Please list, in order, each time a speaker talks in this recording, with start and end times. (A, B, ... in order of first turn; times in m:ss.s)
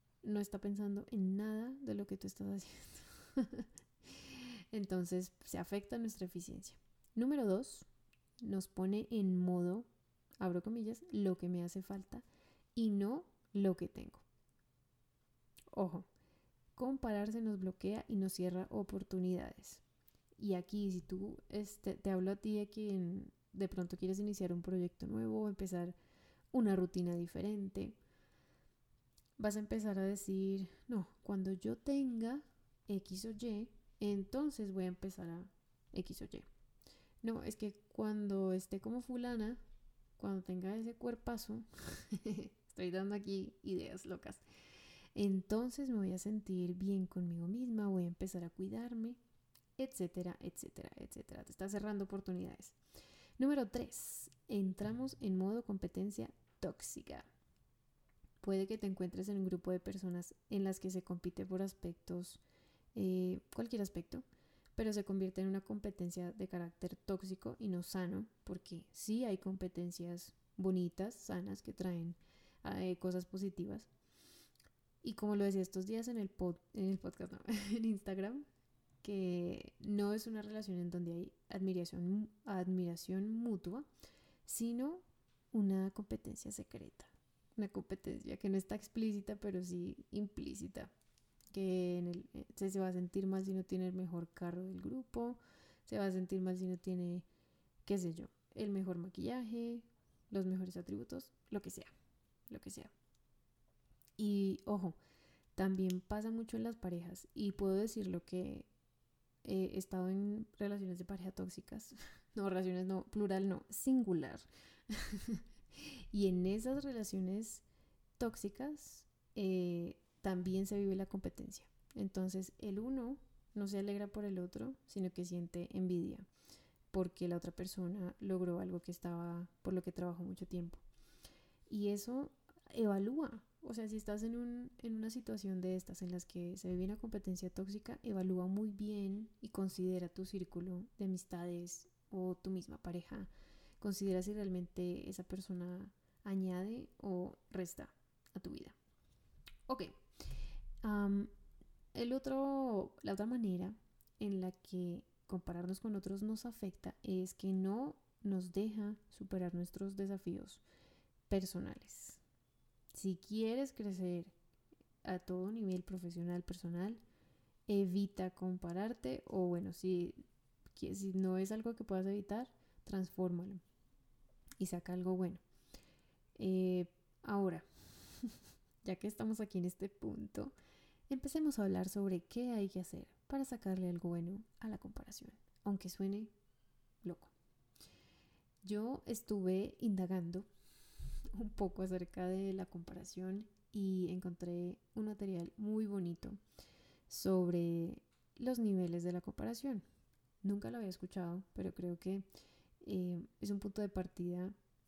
0:00.2-0:07.9 A
0:08.4-0:09.9 A
0:10.4-0:14.2 A
0:15.7-0:16.1 A
0:16.8-0:19.8 A
0:20.4-0:26.0 A
0:26.5-0:28.0 A
0:29.4-0:36.5 A
0:37.2-0:39.6 A
0:40.2-0:44.4 A
0:45.2-0:49.2 A
0:49.8-0:52.8 A
0:53.4-0:57.3 A
0:58.4-1:02.4 A
1:03.0-1:04.2 A
1:04.8-1:13.9 A
1:15.0-1:18.4 A
1:19.0-1:23.9 A
1:24.5-1:30.9 A
1:31.5-1:37.3 A
1:37.8-1:41.9 A
1:42.5-1:42.9 A
1:44.2-1:45.0 A
1:45.6-1:48.7 A
1:49.4-1:57.6 A
1:58.2-2:06.3 A
2:06.9-2:10.8 A
2:11.7-2:28.8 A
2:29.7-2:30.0 A
2:30.8-2:31.3 A
2:31.9-2:40.6 A
2:41.3-2:42.2 A
2:42.9-2:44.4 A
2:45.0-2:47.0 A
2:47.7-2:50.2 A
2:50.7-2:53.6 A
2:54.6-2:55.4 A
2:56.4-3:00.5 A
3:01.1-3:06.3 A
3:07.0-3:07.3 A
3:08.6-3:10.5 A
3:11.3-3:16.4 A
3:17.1-3:19.8 A
3:20.4-3:22.3 A
3:22.8-3:24.6 A